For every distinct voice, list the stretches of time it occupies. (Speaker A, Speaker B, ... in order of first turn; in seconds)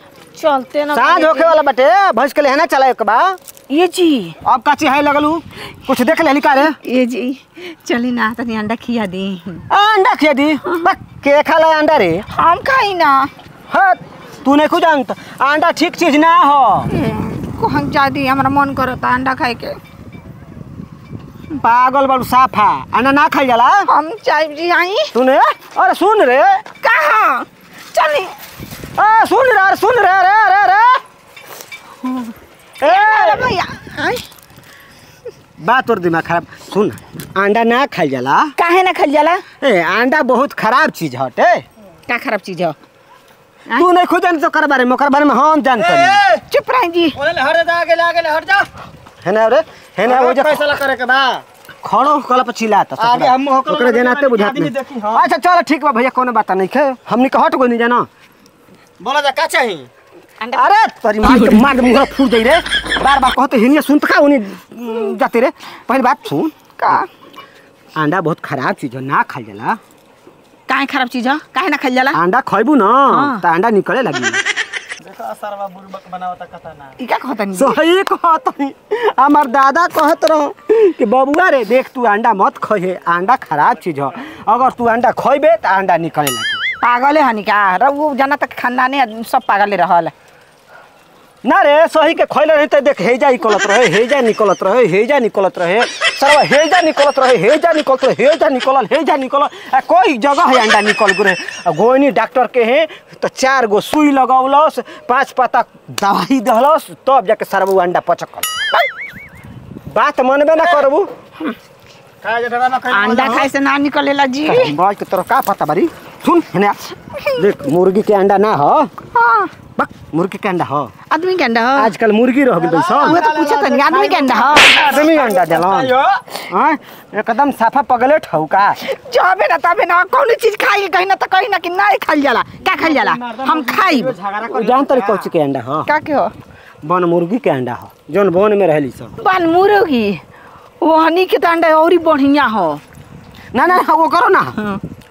Speaker A: 0.3-1.6, 3.7-4.4, 6.8-9.7, 12.3-13.3, 16.9-19.8, 23.9-25.1, 26.8-28.3, 32.0-34.2, 38.6-39.4, 42.1-42.8, 46.5-47.2, 60.4-60.7, 61.2-61.8, 66.8-67.1, 70.7-72.2, 73.1-73.4, 77.0-77.8, 86.8-90.1, 112.9-114.7, 119.1-119.8, 121.1-121.9, 123.0-124.9, 128.8-134.1, 135.9-136.3, 139.2-140.2, 140.8-142.8, 144.6-144.8
Speaker B: 0.9-3.4, 4.4-6.8, 9.7-12.2, 13.7-16.9, 21.5-23.9, 25.1-26.6, 29.0-31.0, 32.8-33.5, 35.6-38.5, 39.6-41.6, 43.8-46.2, 49.2-50.6, 51.8-58.1, 60.5-67.0, 68.0-69.8, 72.1-74.4, 77.5-86.6, 91.4-108.5, 109.9-111.1, 114.5-116.8, 117.4-118.9, 119.8-120.9, 121.8-123.2, 124.7-125.9, 126.5-128.8, 134.4-135.9, 136.8-139.1, 143.5-144.6
Speaker C: 45.8-46.5, 47.1-48.7, 50.0-51.4, 53.0-55.3, 59.0-59.9, 75.0-77.0, 112.2-113.5, 122.5-126.2, 132.6-135.3